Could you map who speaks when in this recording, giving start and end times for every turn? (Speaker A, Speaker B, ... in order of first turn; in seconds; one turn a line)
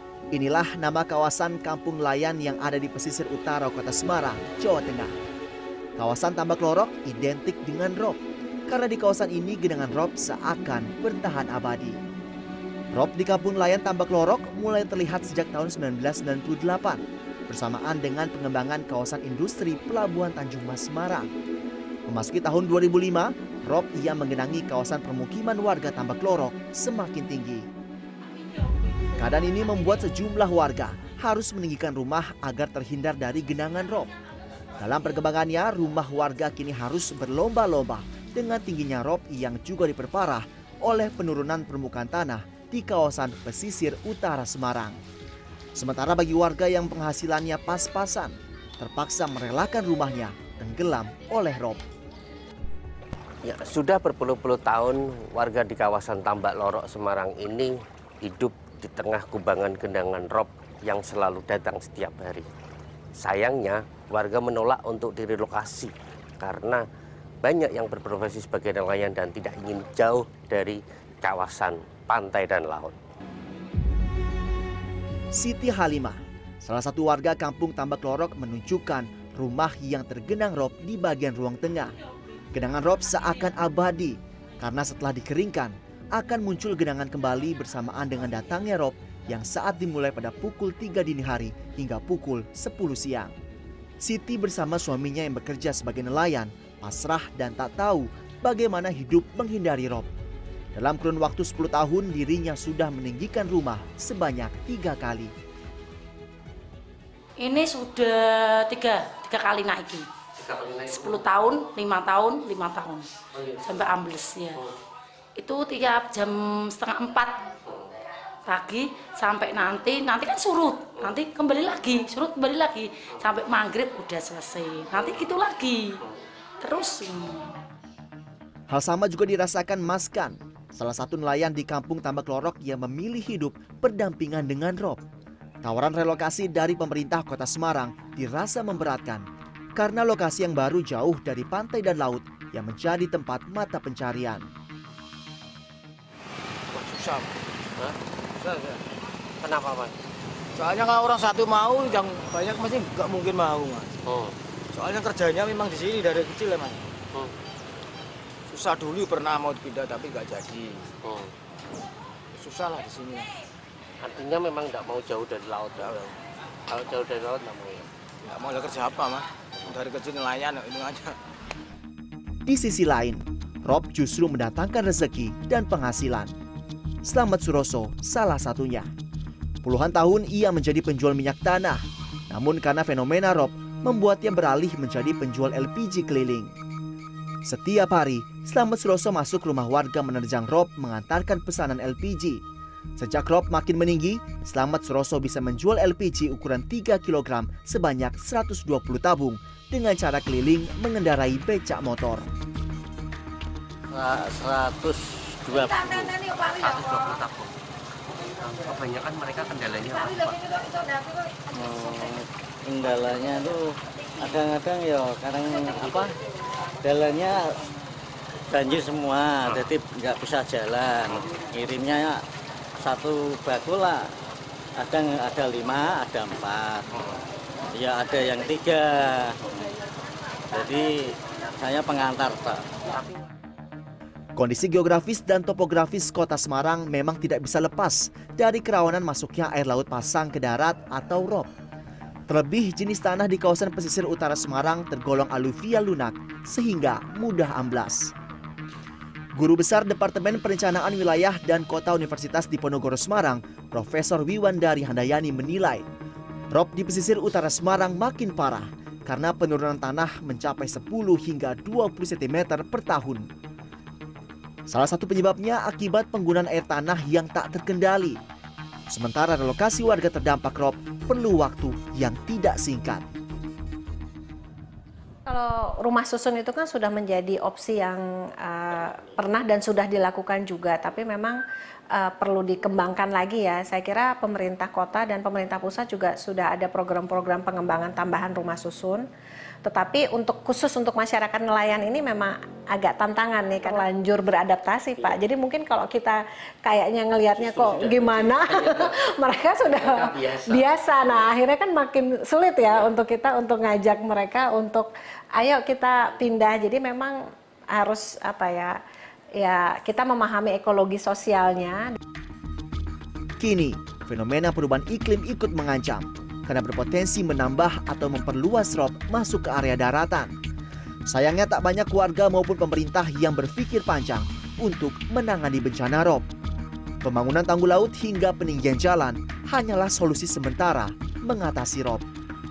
Speaker A: 0.3-5.1
Speaker A: 6.0-12.0
Speaker A: 12.9-21.3
Speaker A: 22.1-27.7
Speaker A: 29.2-34.1
Speaker A: 34.8-45.0
Speaker A: 45.8-51.8
Speaker B: 53.4-62.5
Speaker B: 63.2-66.8
Speaker B: 67.4-73.0
Speaker A: 75.3-82.0
Speaker A: 82.5-93.3
Speaker A: 94.0-100.1
Speaker A: 100.7-105.3
Speaker C: 107.4-110.0
Speaker B: 110.4-111.3
Speaker C: 110.8-113.1
Speaker B: 113.3-113.6
Speaker C: 113.6-114.6
Speaker C: 115.4-117.4
Speaker C: 118.5-126.0
Speaker C: 126.6-127.5
Speaker A: 128.7-135.0
Speaker A: 135.6-144.5
Speaker D: 146.7-147.4
Speaker D: 148.3-148.8
Speaker B: 149.4-149.9
Speaker D: 150.6-154.0
Speaker B: 154.1-154.3
Speaker D: 154.7-156.8
Speaker D: 158.5-160.9
Speaker B: 161.0-161.3
Speaker D: 162.3-163.3
Speaker B: 164.0-166.0
Speaker D: 165.8-166.1
Speaker B: 166.7-167.9
Speaker D: 168.2-171.2
Speaker A: 172.4-176.3
Speaker A: 177.0-178.9
Speaker A: 179.6-186.5
Speaker A: 187.4-192.4
Speaker A: 193.0-202.3
Speaker E: 203.9-206.2
Speaker B: 206.3-207.5
Speaker B: 208.1-210.8
Speaker E: 211.5-216.1
Speaker E: 216.8-217.4
Speaker E: 218.5-222.2
Speaker E: 222.8-224.1
Speaker E: 224.8-226.8
Speaker E: 227.7-229.7
Speaker E: 230.5-232.6
Speaker A: 234.3-241.5
Speaker A: 242.3-248.1
Speaker A: 249.3-255.8
Speaker A: 256.5-263.3
Speaker A: 264.7-268.2
Speaker A: 268.9-273.1
Speaker F: 275.2-281.4
Speaker F: 281.9-289.0
Speaker F: 289.6-307.2
Speaker B: 297.3-298.9
Speaker B: 299.7-300.6
Speaker F: 307.7-308.8
Speaker F: 309.4-312.0
Speaker A: 313.4-320.3
Speaker A: 321.1-326.2
Speaker A: 327.0-332.1